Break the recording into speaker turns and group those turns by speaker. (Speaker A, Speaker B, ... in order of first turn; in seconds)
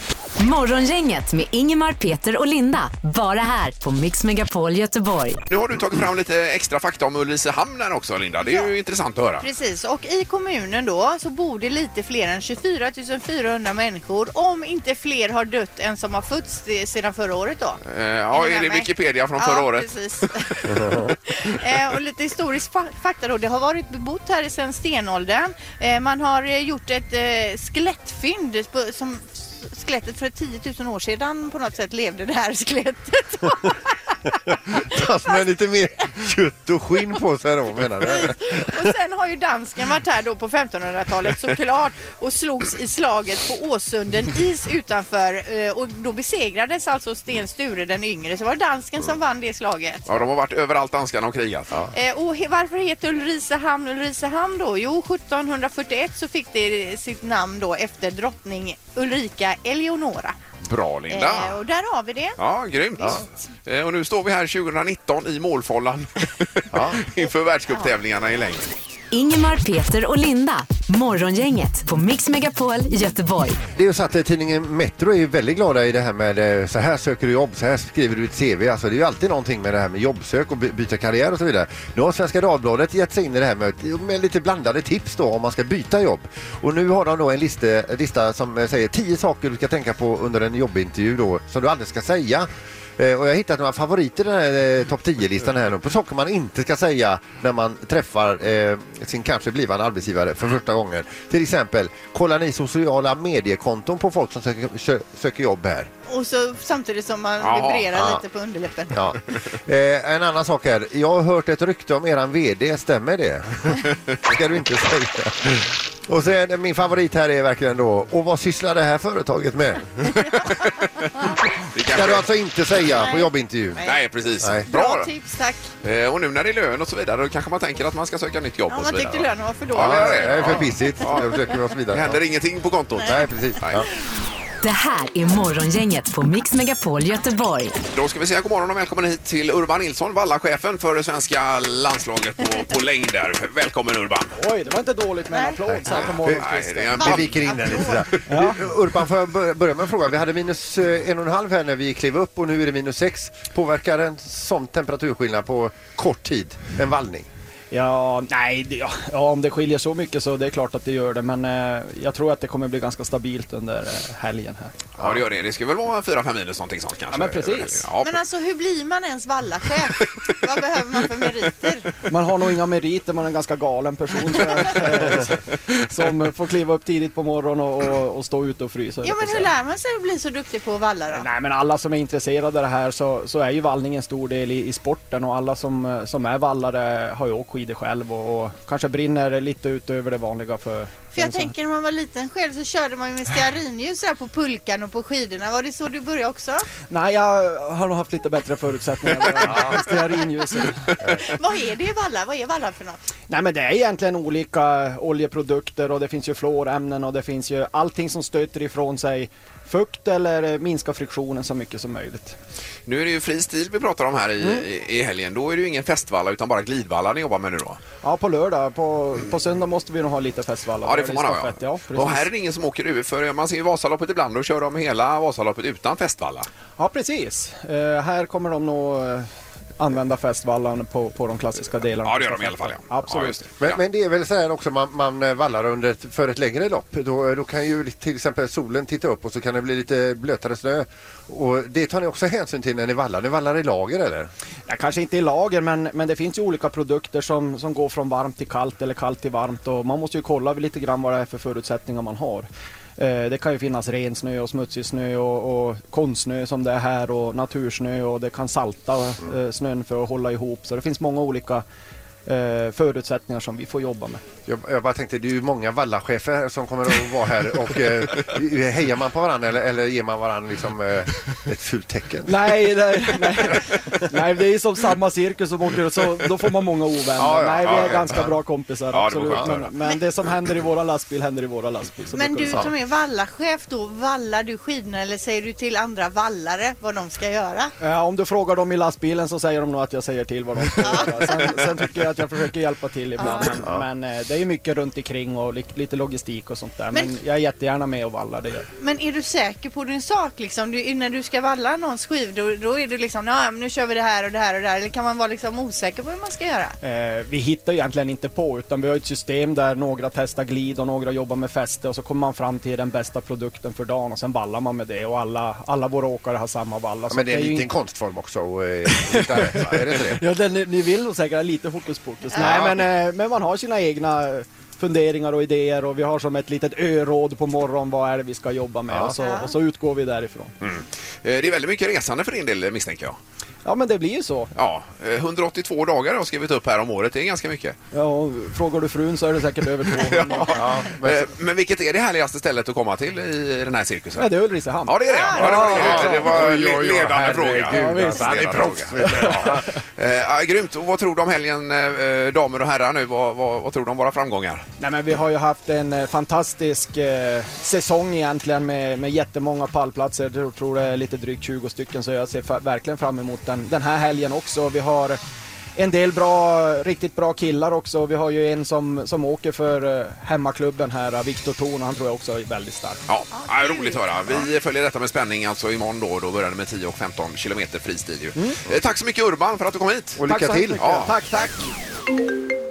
Speaker A: 0.4-5.4, 69.1-73.6, 134.6-137.7
Speaker B: 5.5-9.5, 17.9-20.8, 50.1-51.9, 60.6-61.6, 62.4-68.7, 107.4-107.9, 120.3-121.1, 121.6-122.3, 123.8-125.1, 125.8-131.3, 131.9-133.8, 137.9-144.3, 145.9-147.9, 164.9-168.2, 212.9-217.8, 220.8-226.5, 232.0-233.8, 277.6-278.1, 278.9-279.7, 330.6-333.2, 334.5-337.8, 340.0-344.3, 344.8-354.6, 373.1-380.2, 380.8-381.4
Speaker C: 8.4-8.7, 9.4-17.8, 18.3-35.0, 38.0-50.2, 51.9-60.4, 61.1-62.4, 106.1-109.0, 123.0-124.0, 124.7-125.7, 128.7-130.5, 145.3-145.6, 146.9-148.2, 168.0-171.9, 179.0-181.3, 191.1-196.7, 201.1-203.0, 282.1-287.7, 290.8-291.5, 293.2-293.5, 298.8-306.8, 329.2-329.5, 345.1-345.7, 373.4-374.3
Speaker D: 34.7-38.9, 66.7-67.0, 73.7-105.9, 107.9-108.2, 108.9-120.1, 121.9-123.8, 124.4-124.7, 129.7-132.2, 133.0-133.8, 145.7-146.4, 146.9-157.3, 233.6-244.3, 264.5-272.6, 277.2-278.3, 317.1-320.2, 322.4-322.8, 340.5-341.3, 345.4-349.6, 380.2-381.1
Speaker E: 144.3-147.2, 148.3-148.6, 157.7-164.8, 167.1-167.9, 172.1-179.5, 181.1-191.5, 196.9-200.9, 203.3-212.4, 214.4-214.6, 218.0-222.3, 226.8-233.5, 244.7-261.6, 262.2-264.2, 272.2-282.7, 287.8-298.7, 306.8-317.7, 318.9-330.5, 333.6-334.5, 337.9-340.8, 344.2-346.4, 347.7-349.6, 354.8-365.2, 365.8-373.0, 380.2-381.6